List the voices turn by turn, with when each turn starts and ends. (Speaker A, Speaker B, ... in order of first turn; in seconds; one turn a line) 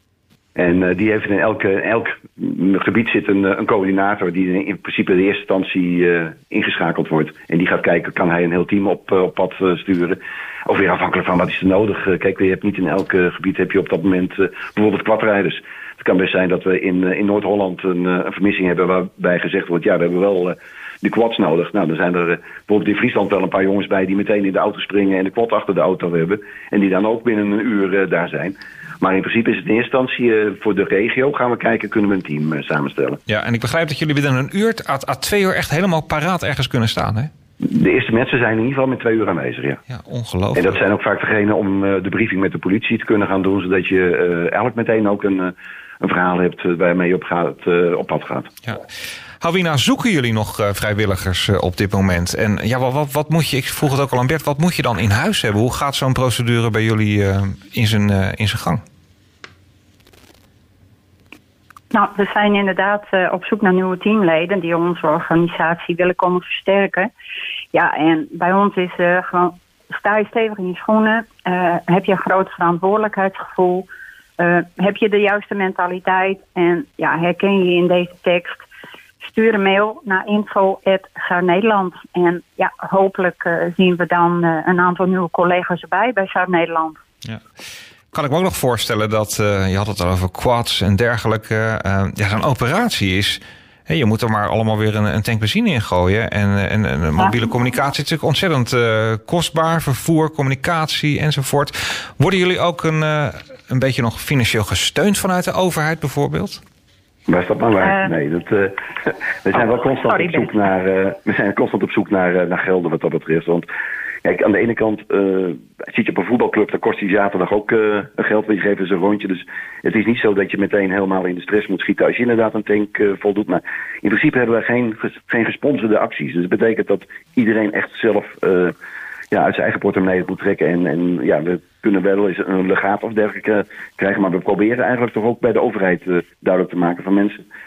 Speaker A: 0.5-33.2
Speaker B: 33.3-37.3
Speaker A: 37.6-39.8
Speaker B: 39.9-40.8
Speaker A: 40.5-48.5
Speaker B: 49.4-58.8
Speaker C: 61.9-67.1
Speaker C: 67.7-73.9
Speaker C: 74.4-78.7
Speaker C: 79.2-87.0
Speaker B: 88.1-106.6
Speaker A: 107.3-113.7
Speaker C: 107.8-108.1
Speaker C: 110.0-110.5
Speaker A: 114.2-128.7
Speaker A: 129.3-137.4